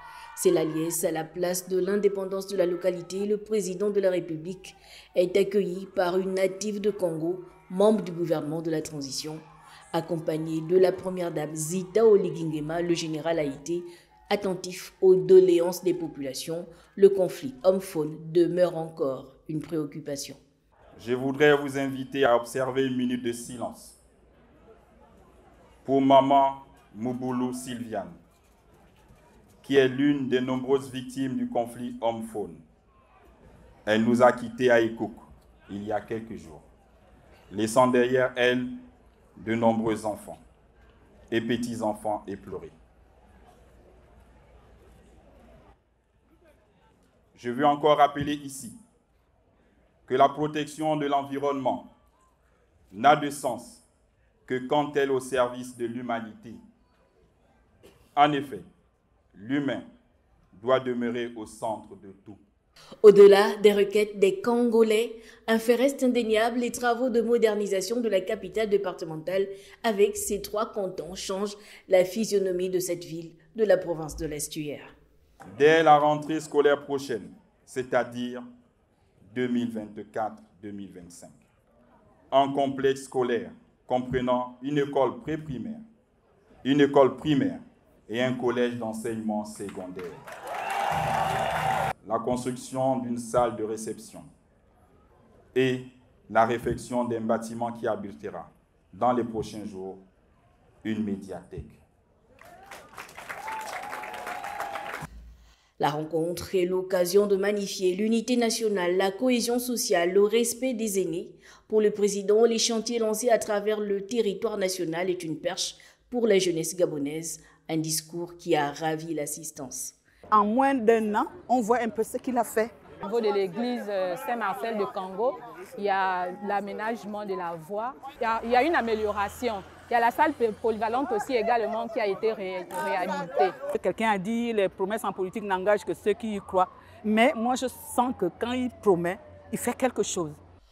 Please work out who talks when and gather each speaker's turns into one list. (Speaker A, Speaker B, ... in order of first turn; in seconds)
Speaker A: 0.4-20.4, 63.0-74.9, 105.8-120.0
Speaker B: 21.0-24.0, 25.8-28.2, 29.6-32.6, 33.9-36.7, 37.5-38.7, 39.4-40.4, 41.3-42.8, 47.4-48.8, 50.1-51.9, 52.9-53.8, 54.5-56.6, 58.2-58.6, 59.3-59.9, 60.5-62.4, 75.5-78.5, 79.3-81.4, 82.3-85.8, 86.6-90.2, 92.0-94.3, 95.5-100.0, 100.8-101.8
Speaker C: 120.3-122.8, 133.7-140.4
Speaker D: 123.0-133.6